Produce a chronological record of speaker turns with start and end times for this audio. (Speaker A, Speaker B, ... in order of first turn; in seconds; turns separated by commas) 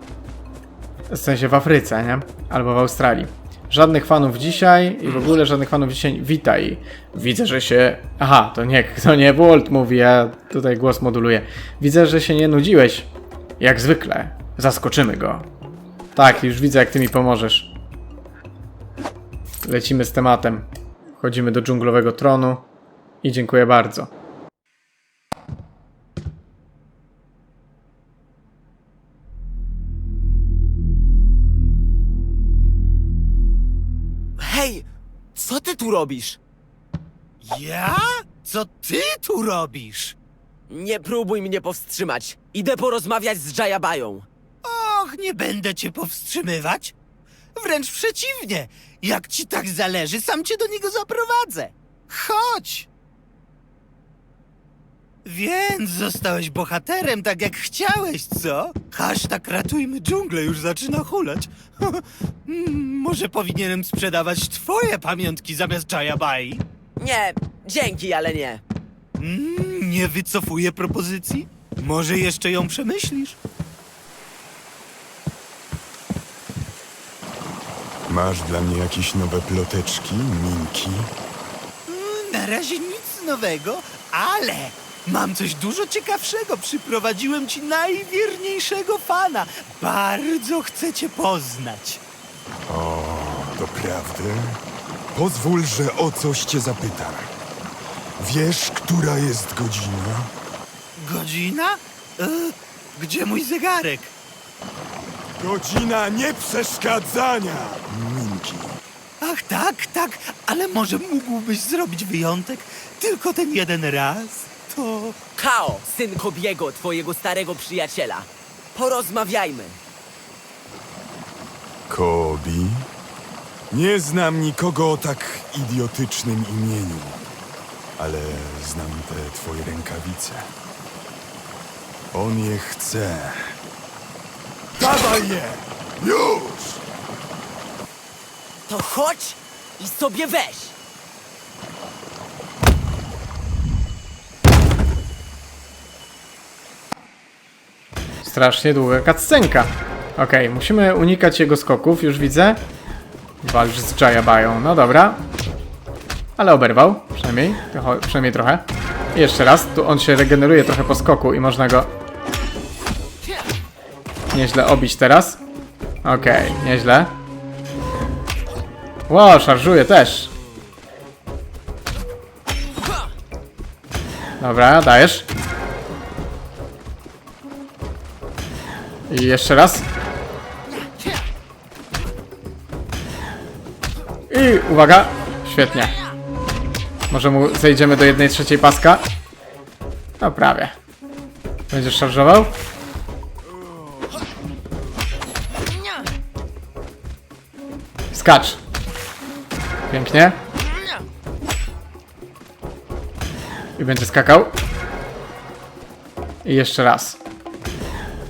Speaker A: 1.1-13.1, Speaker A: 13.6-15.5, Speaker A: 16.1-17.7, Speaker A: 19.6-22.7, Speaker A: 23.2-24.1, Speaker B: 34.4-34.9, Speaker B: 35.4-36.4, Speaker C: 37.4-40.2, Speaker B: 40.7-44.3, Speaker C: 44.6-47.0, Speaker C: 47.6-52.9, Speaker C: 55.2-66.6, Speaker B: 67.0-68.6, Speaker C: 69.2-73.4, Speaker D: 78.1-81.1, Speaker C: 81.9-92.0, Speaker D: 92.7-94.6, Speaker D: 95.1-97.3, Speaker D: 98.2-100.3, Speaker C: 101.0-104.1, Speaker D: 105.4-108.8, Speaker C: 109.2-115.2, Speaker B: 115.4-119.8, Speaker D: 121.9-122.9, Speaker D: 123.7-127.2, Speaker D: 128.0-130.5, Speaker D: 132.1-133.6, Speaker D: 134.8-136.8, Speaker B: 138.7-140.8, Speaker A: 148.2-152.6, Speaker A: 153.4-155.2, Speaker A: 156.4-161.9, Speaker A: 164.3-165.4, Speaker A: 166.0-167.1, Speaker A: 169.1-170.3, Speaker A: 174.4-175.3, Speaker A: 179.1-179.9, Speaker A: 184.3-186.0, Speaker A: 187.1-189.1, Speaker A: 190.2-190.8, Speaker A: 191.7-192.6, Speaker A: 198.1-198.6, Speaker A: 199.9-200.4, Speaker A: 203.8-204.5, Speaker A: 206.4-207.2